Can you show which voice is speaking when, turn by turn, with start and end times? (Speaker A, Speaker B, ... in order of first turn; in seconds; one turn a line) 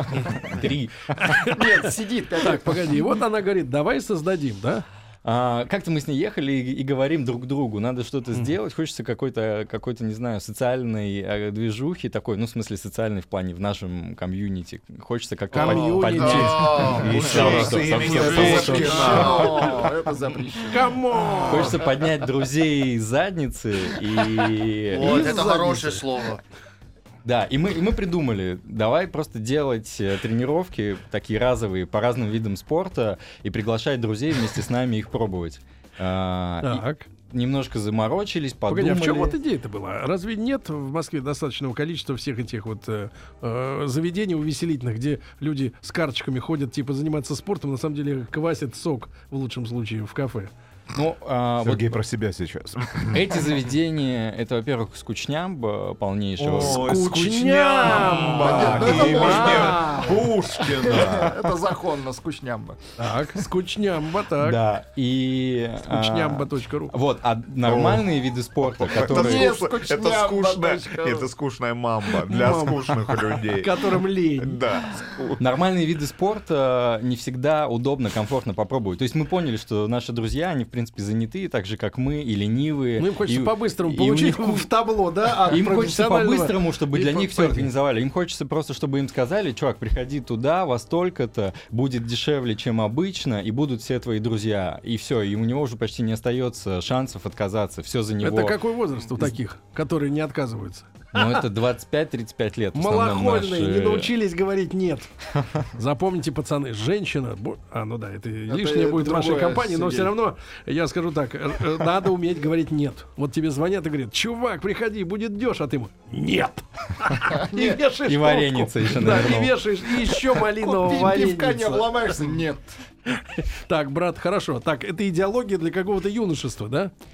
Speaker A: 0.1-1.4
Speaker B: 1.1-1.9
Speaker C: 1.4-3.0
Speaker B: 2.4-4.8
Speaker A: 5.2-19.7
Speaker B: 15.5-16.8
Speaker C: 15.5-21.7
Speaker D: 16.2-19.8
Speaker E: 16.8-19.8
Speaker B: 20.7-21.8
Speaker A: 21.5-25.4
Speaker D: 24.9-26.4
Speaker B: 25.0-26.0
Speaker C: 25.2-25.6
Speaker A: 27.2-39.4
Speaker B: 36.6-37.1
Speaker B: 38.7-50.5
Speaker A: 50.9-52.0
Speaker E: 51.6-53.4
Speaker A: 53.1-56.9
Speaker E: 56.4-61.5
Speaker B: 56.5-60.1
Speaker C: 57.9-62.9
Speaker B: 63.0-64.6
Speaker A: 64.4-69.6
Speaker B: 65.9-67.0
Speaker E: 67.6-68.1
Speaker E: 68.6-75.4
Speaker C: 69.0-71.3
Speaker B: 72.3-74.6
Speaker A: 75.4-84.7
Speaker B: 83.0-87.7
Speaker A: 85.4-98.6
Speaker B: 98.2-101.4
Speaker A: 101.1-104.1
Speaker B: 102.7-105.1
Speaker B: 105.7-122.0
Speaker C: 108.5-110.1
Speaker C: 117.3-117.8
Speaker A: 118.0-119.6
Speaker C: 120.3-122.7
Speaker B: 123.1-126.9